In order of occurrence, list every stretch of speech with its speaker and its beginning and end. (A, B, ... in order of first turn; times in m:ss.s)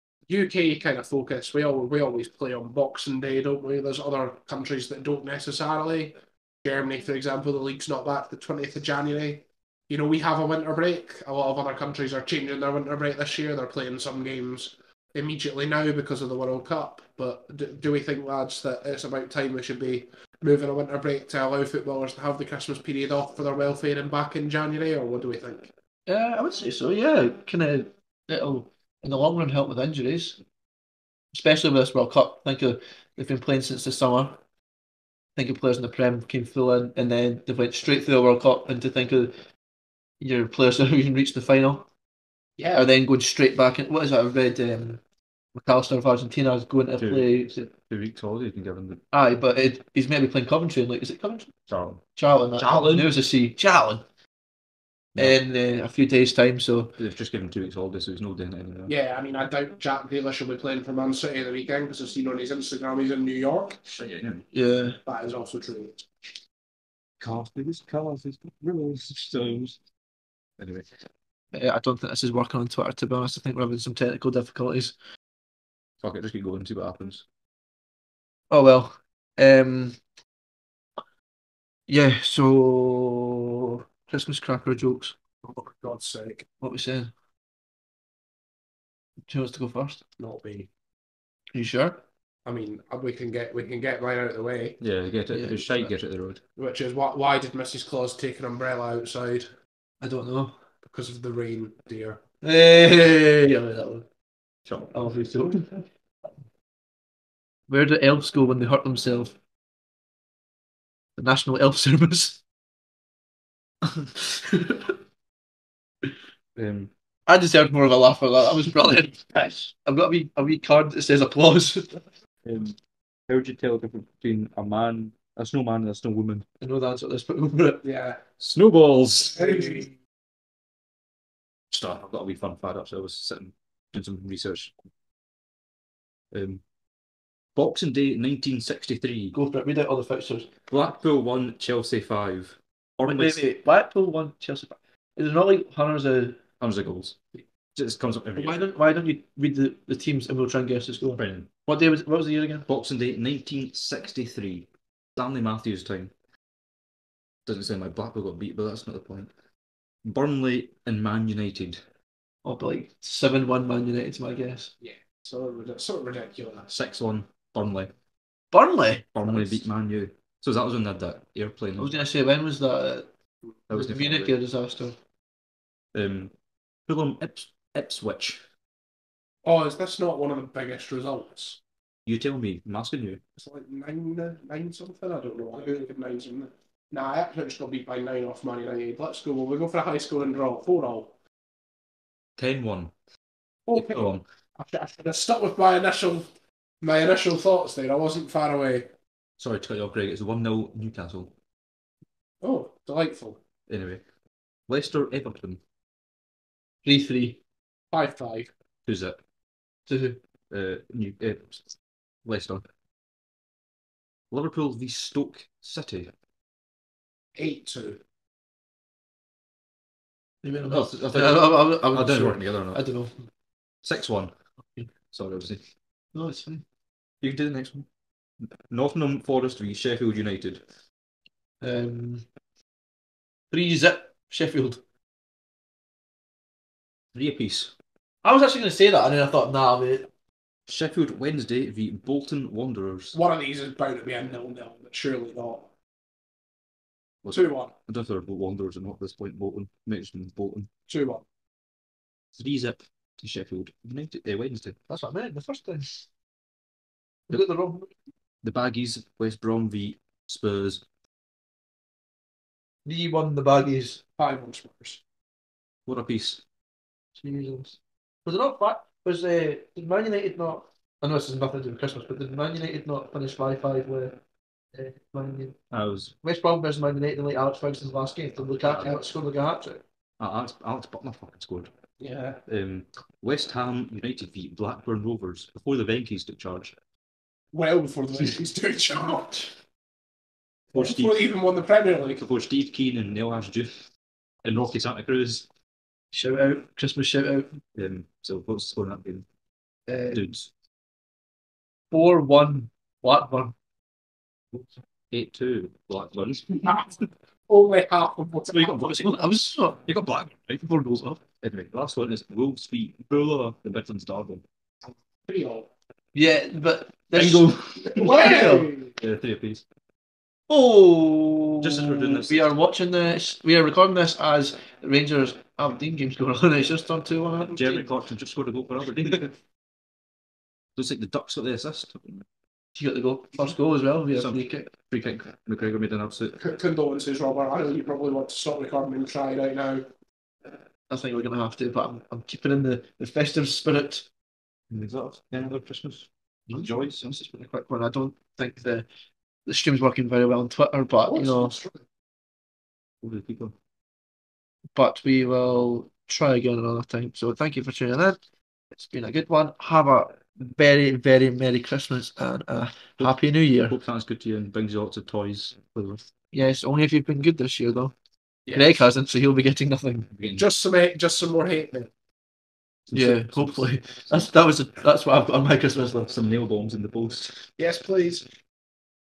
0:00.3-0:25.7 A
0:26.1-0:30.4 B
0:31.3-0:34.4 B
0:35.4-0:39.3 B
0:40.2-0:41.9 B
0:42.6-0:42.8 A
0:42.7-0:45.0 B
0:45.5-0:47.7 B
0:47.0-0:49.0 C
0:49.1-0:51.5 B
0:51.7-0:52.0 C
0:52.2-0:54.0 B
0:52.6-0:53.1 C
0:55.2-0:57.0 B
0:57.0-0:58.9 C
0:58.9-1:03.8 A
1:03.9-1:04.4 C
1:04.5-1:05.0 B
1:05.0-1:06.0 A
1:07.2-1:09.8 C
1:10.6-1:10.9 C
1:11.5-1:14.9 B
1:16.0-1:17.2 C
1:18.5-1:20.0 B
1:21.9-1:23.5 B
1:24.0-1:25.2 B
1:25.4-1:26.4 A
1:26.6-1:27.1 B
1:29.3-1:30.0 B
1:30.2-1:30.7 A
1:31.5-1:32.0 B
1:32.4-1:34.8 A
1:34.8-1:36.4 C
1:35.3-1:35.9 B
1:36.6-1:39.5 A
1:40.0-1:40.6 B
1:40.8-1:42.2 A
1:42.4-1:44.0 B
1:44.6-1:44.9 C
1:44.9-1:45.8 B
1:47.7-1:49.4 B
1:51.2-1:52.4 B
1:53.9-1:54.9 B
1:56.6-1:56.9 C
1:57.3-2:02.1 B
2:02.4-2:02.8 C
2:03.3-2:06.4 C
2:06.6-2:07.8 B
2:07.8-2:08.2 A
2:08.4-2:09.9 C
2:09.4-2:09.8 A
2:11.7-2:14.7 C
2:16.3-2:16.6 C
2:17.5-2:19.4 C
2:19.3-2:20.5 B
2:20.7-2:23.4 C
2:23.0-2:26.4 B
2:26.6-2:27.2 C
2:27.7-2:28.6 C
2:28.4-2:32.6 B
2:31.2-2:31.5 C
2:32.7-2:36.1 C
2:37.4-2:39.3 C
2:40.0-2:41.8 C
2:42.4-2:44.7 B
2:44.8-2:46.7 A
2:46.7-2:47.9 C
2:48.5-2:49.6 B
2:49.1-2:52.0 C
2:51.8-2:53.1 B
2:53.7-2:54.3 C
2:53.7-2:55.0 B
2:55.9-2:56.3 C
2:56.9-2:58.4 C
2:59.4-3:01.6 A
3:02.0-3:03.2 C
3:03.4-3:11.1 A
3:12.4-3:12.9 C
3:13.7-3:16.3 A
3:13.7-3:14.2 C
3:16.8-3:18.9 A
3:19.4-3:21.3 C
3:22.4-3:23.4 A
3:23.7-3:24.0 C
3:24.7-3:25.6 C
3:26.8-3:27.4 B
3:27.9-3:28.5 A
3:28.8-3:29.2 C
3:29.9-3:30.2 B
3:30.5-3:31.7 C
3:32.2-3:32.6 C
3:34.3-3:36.1 C
3:37.4-3:38.0 A
3:40.4-3:43.1 B
3:40.7-3:42.8 C
3:43.8-3:44.3 C
3:45.1-3:45.6 C
3:46.1-3:46.6 B
3:47.2-3:47.9 C
3:48.4-3:50.6 C
3:51.6-3:52.2 B
3:53.5-3:54.8 B
3:57.1-3:57.7 C
3:58.2-4:00.1 B
4:00.7-4:03.2 C
4:03.1-4:05.7 A
4:07.2-4:10.7 C
4:07.3-4:07.7 A
4:10.9-4:11.2 A
4:12.3-4:14.8 C
4:14.9-4:16.0 B
4:17.3-4:17.9 B
4:18.4-4:20.8 C
4:22.8-4:24.0 B
4:24.2-4:25.0 A
4:25.8-4:26.4 C
4:27.2-4:34.2 B
4:34.7-4:35.6 B
4:35.7-4:36.1 C
4:36.2-4:39.8 B
4:38.6-4:38.9 C
4:40.2-4:41.7 C
4:42.0-4:42.4 A
4:42.5-4:46.7 C
4:47.5-4:49.6 A
4:50.7-4:52.2 A
4:50.7-4:51.2 C
4:52.2-4:53.8 C
4:54.4-4:55.5 C
4:56.1-4:57.6 B
4:57.7-4:59.3 C
4:59.9-5:00.2 B
5:00.1-5:00.5 C
5:01.9-5:03.6 B
5:04.5-5:06.7 C
5:06.6-5:08.9 A
5:08.5-5:09.1 C
5:08.9-5:09.8 B
5:09.8-5:10.6 C
5:10.6-5:11.2 B
5:11.4-5:14.4 C
5:14.9-5:15.7 A
5:16.1-5:18.7 B
5:17.1-5:19.6 C
5:18.0-5:19.0 A
5:20.5-5:27.8 B
5:21.6-5:22.4 C
5:27.4-5:29.3 C
5:30.8-5:32.2 C
5:32.8-5:34.7 B
5:34.1-5:36.4 C
5:36.4-5:39.8 A
5:40.9-5:44.1 B
5:44.7-5:47.2 C
5:46.5-5:48.8 B
5:49.4-5:51.5 B
5:51.1-5:51.8 A
5:53.0-5:53.5 C
5:54.7-5:58.2 B
5:58.7-6:03.8 B
6:03.0-6:06.0 C
6:06.3-6:07.9 B
6:08.5-6:08.8 A
6:08.5-6:10.1 B
6:10.1-6:10.4 C
6:10.4-6:11.9 A
6:12.9-6:14.2 C
6:12.9-6:16.1 B
6:16.1-6:17.4 C
6:17.6-6:18.3 A